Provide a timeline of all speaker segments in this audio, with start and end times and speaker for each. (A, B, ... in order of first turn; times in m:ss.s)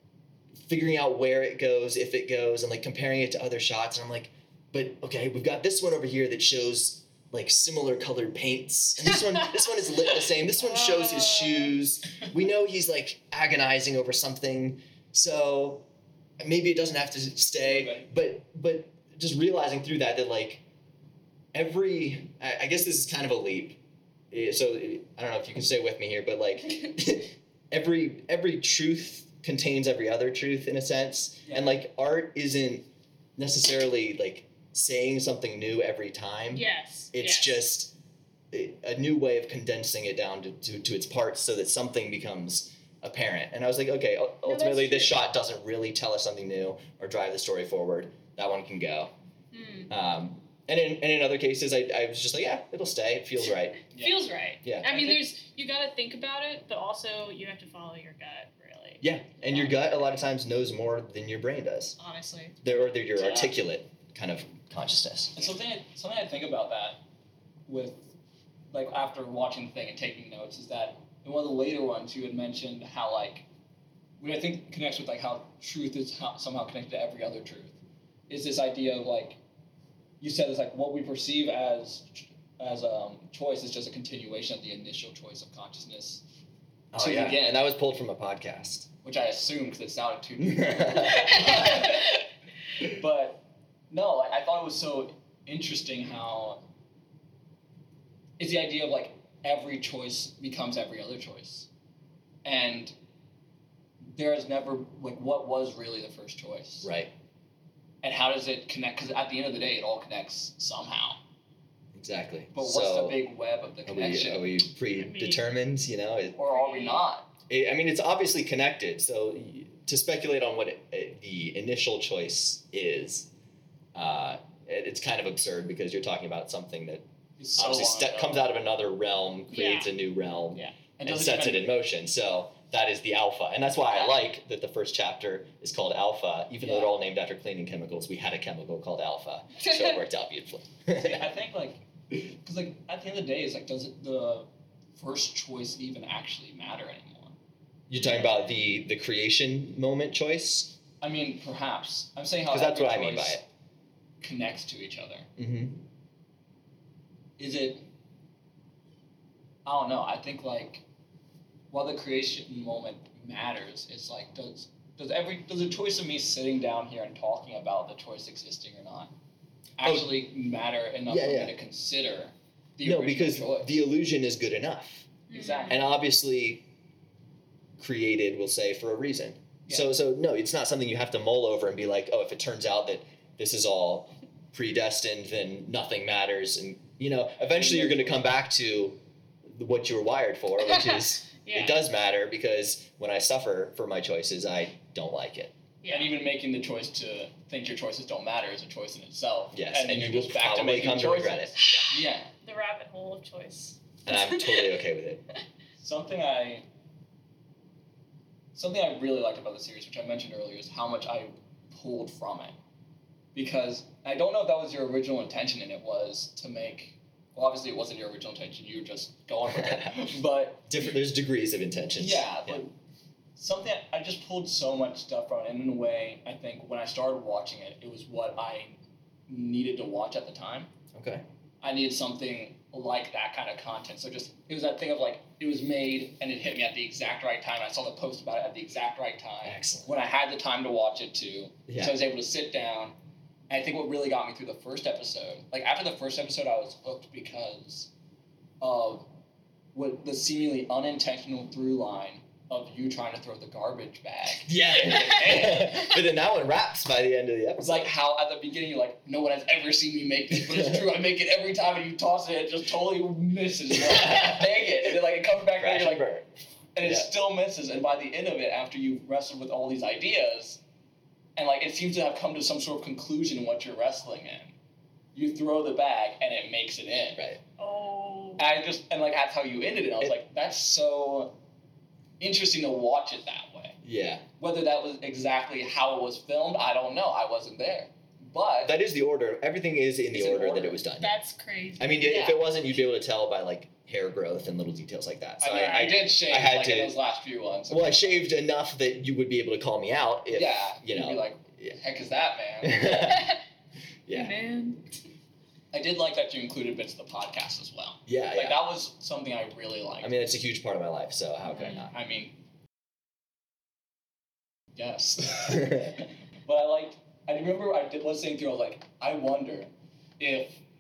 0:00.6-0:15.9 A
0:10.6-0:11.7 B
0:16.4-0:20.6 A
0:17.6-0:18.1 C
0:21.5-0:23.8 A
0:24.3-0:37.9 A
0:31.4-0:31.8 C
0:36.5-0:37.6 B
0:38.5-0:49.1 A
0:44.4-0:45.2 B
0:49.5-0:49.9 B
0:49.9-0:53.8 A
0:53.9-0:54.3 C
0:53.9-0:59.7 B
0:54.6-0:54.9 A
0:54.8-0:55.2 C
0:59.0-1:02.0 A
1:02.0-1:02.6 B
1:02.6-1:05.4 A
1:03.2-1:03.5 C
1:05.3-1:07.0 C
1:07.7-1:08.1 C
1:08.7-1:13.4 C
1:14.2-1:17.8 C
1:18.3-1:19.4 C
1:20.2-1:26.2 C
1:26.9-1:28.9 A
1:27.0-1:27.6 C
1:29.0-1:32.2 C
1:30.4-1:31.5 A
1:31.3-1:32.0 B
1:32.8-1:36.6 C
1:38.4-1:41.7 C
1:42.4-1:42.9 C
1:44.1-1:46.9 C
1:46.8-1:47.1 A
1:48.0-1:51.2 C
1:51.9-1:53.2 A
1:52.5-1:54.5 C
1:53.8-1:56.4 A
1:54.9-1:55.5 B
1:56.4-1:57.3 C
1:56.5-1:57.0 B
1:57.5-2:03.3 A
2:03.9-2:07.0 A
2:07.4-2:08.5 C
2:07.6-2:21.3 A
2:09.5-2:09.9 B
2:11.0-2:11.7 C
2:16.6-2:16.9 C
2:19.6-2:20.0 B
2:20.9-2:27.4 C
2:27.9-2:30.8 A
2:27.9-2:28.6 B
2:31.0-2:33.4 C
2:32.5-2:33.4 A
2:34.2-2:35.3 C
2:35.4-2:35.8 A
2:37.4-2:37.9 C
2:39.6-2:40.8 C
2:41.7-2:49.1 C
2:49.8-2:53.8 C
2:49.8-2:50.2 A
2:51.1-2:51.5 A
2:52.8-2:55.2 A
2:55.3-2:55.8 C
2:55.3-2:55.9 B
2:55.7-2:56.6 A
2:57.8-3:15.5 A
3:07.4-3:08.3 C
3:10.6-3:11.8 B
3:15.8-3:16.1 B
3:15.9-3:22.3 C
3:19.5-3:21.9 A
3:21.6-3:24.7 B
3:24.0-3:25.2 A
3:25.8-3:26.6 C
3:28.5-3:32.6 C
3:33.3-3:40.8 C
3:39.5-3:40.1 A
3:40.7-3:42.6 A
3:42.0-3:42.7 C
3:43.4-3:50.7 C
3:50.9-3:51.2 A
3:51.6-4:02.9 C
3:59.4-3:59.9 A
4:01.7-4:02.0 A
4:03.5-4:07.9 C
4:08.6-4:09.1 C
4:09.7-4:15.9 C
4:14.4-4:17.9 A
4:17.6-4:26.1 C
4:20.5-4:20.8 A
4:23.9-4:24.5 A
4:25.6-4:26.3 A
4:26.7-4:30.6 C
4:26.8-4:27.1 A
4:31.4-4:34.5 C
4:35.1-4:37.2 C
4:37.6-4:38.4 B
4:38.4-4:41.4 C
4:42.2-4:43.8 C
4:43.8-4:44.2 A
4:44.4-4:48.8 C
4:48.6-4:51.1 A
4:50.1-4:50.8 C
4:51.0-4:52.2 B
4:51.8-4:57.0 A
4:52.0-4:52.4 C
4:55.4-4:58.2 C
4:55.5-4:56.0 B
4:57.7-5:01.8 A
5:00.3-5:02.9 C
5:02.6-5:03.4 A
5:02.9-5:03.4 B
5:04.1-5:04.4 A
5:04.1-5:04.9 B
5:05.7-5:10.2 C
5:08.1-5:08.6 A
5:10.0-5:11.9 A
5:11.4-5:11.9 B
5:11.9-5:12.4 C
5:14.7-5:20.6 C
5:15.5-5:15.9 A